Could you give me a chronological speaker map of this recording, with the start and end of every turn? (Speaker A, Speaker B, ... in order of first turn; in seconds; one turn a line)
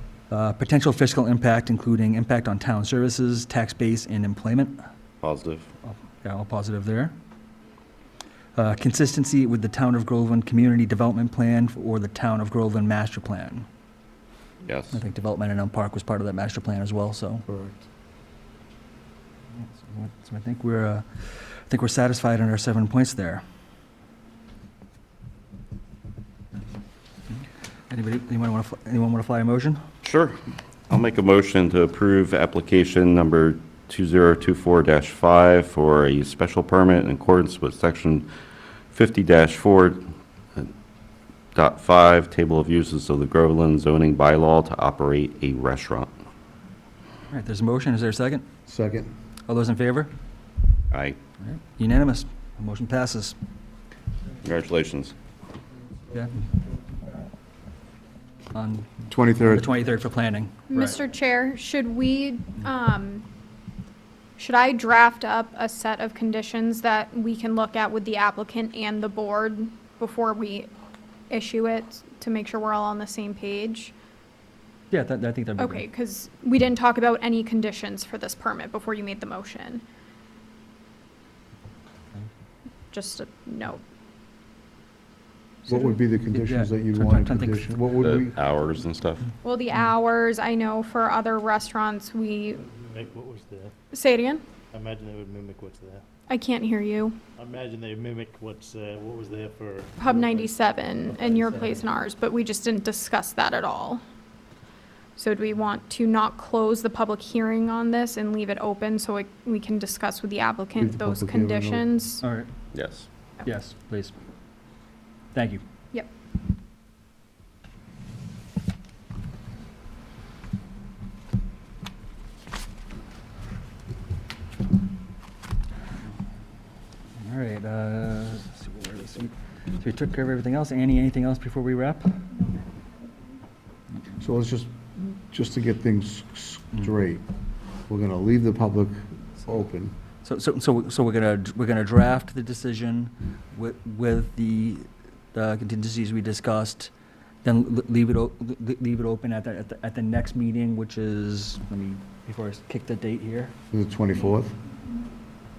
Speaker A: 0.3-4.8
Speaker B: 5.2-5.7
Speaker A: 5.9-7.1
Speaker A: 8.6-13.7
Speaker B: 14.7-15.0
Speaker A: 14.9-17.4
Speaker C: 17.5-17.8
Speaker A: 19.6-23.4
Speaker A: 27.9-29.8
Speaker B: 30.0-30.4
Speaker B: 30.9-38.3
Speaker B: 38.9-40.0
Speaker B: 41.5-46.1
Speaker A: 47.3-48.5
Speaker C: 48.7-49.1
Speaker A: 49.5-50.1
Speaker B: 50.9-51.2
Speaker A: 51.4-53.4
Speaker B: 54.4-55.1
Speaker A: 58.5-61.0
Speaker C: 59.1-59.7
Speaker D: 60.7-63.3
Speaker D: 64.4-70.7
Speaker D: 71.3-73.9
Speaker A: 74.9-75.8
Speaker D: 75.6-79.8
Speaker D: 82.9-83.8
Speaker D: 85.7-86.0
Speaker C: 85.7-88.4
Speaker A: 86.3-87.7
Speaker B: 88.0-89.3
Speaker D: 89.4-92.6
Speaker E: 92.6-93.7
Speaker D: 93.9-94.4
Speaker E: 94.7-96.0
Speaker D: 96.3-97.2
Speaker E: 97.4-100.5
Speaker D: 100.0-104.0
Speaker E: 101.2-101.8
Speaker D: 105.2-112.2
Speaker C: 110.8-111.9
Speaker A: 112.2-112.5
Speaker B: 112.7-113.1
Speaker A: 113.4-114.1
Speaker A: 115.3-115.6
Speaker A: 127.2-132.1
Speaker D: 132.3-133.3
Speaker C: 134.2-137.2
Speaker C: 137.9-139.9
Speaker A: 140.2-146.9
Speaker A: 147.4-153.6
Speaker C: 153.7-154.6